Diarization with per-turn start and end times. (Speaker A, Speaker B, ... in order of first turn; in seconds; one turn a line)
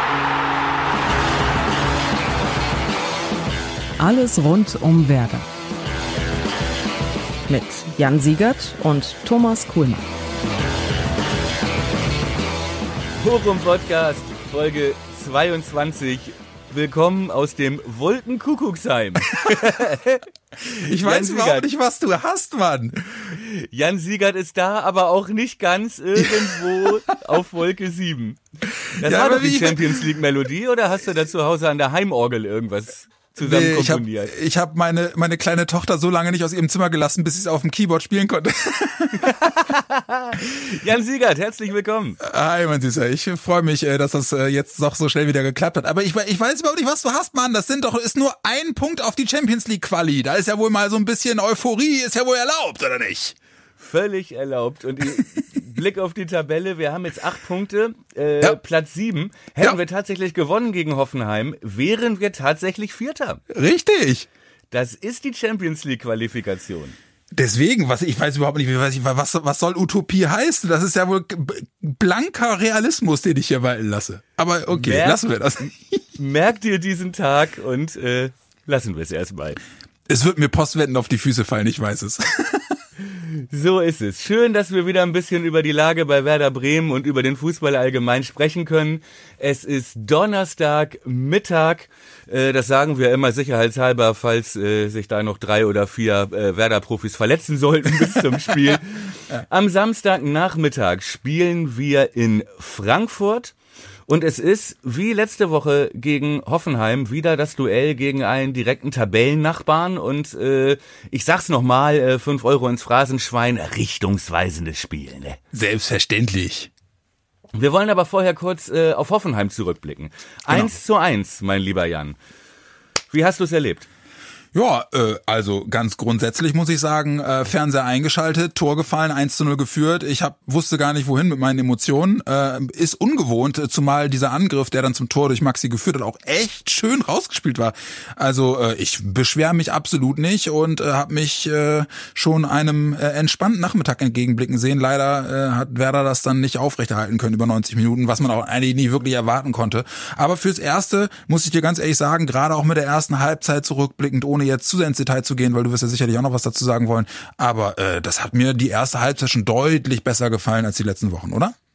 Speaker A: 4.0-5.5
Speaker A: 7.5-10.0
Speaker B: 13.2-21.7
Speaker C: 19.3-19.8
Speaker C: 20.7-23.4
Speaker B: 23.3-28.4
Speaker C: 26.2-26.9
Speaker C: 28.7-30.1
Speaker B: 28.9-34.3
Speaker C: 33.4-39.6
Speaker B: 39.2-42.2
Speaker C: 42.2-53.4
Speaker B: 53.8-63.4
Speaker C: 63.5-64.3
Speaker B: 64.7-67.0
Speaker C: 67.3-75.8
Speaker B: 74.7-75.2
Speaker B: 76.2-79.6
Speaker C: 80.1-82.8
Speaker B: 83.1-103.5
Speaker B: 104.1-115.4
Speaker C: 115.5-116.7
Speaker B: 117.5-122.2
Speaker C: 120.5-120.7
Speaker B: 123.1-123.9
Speaker C: 124.5-161.5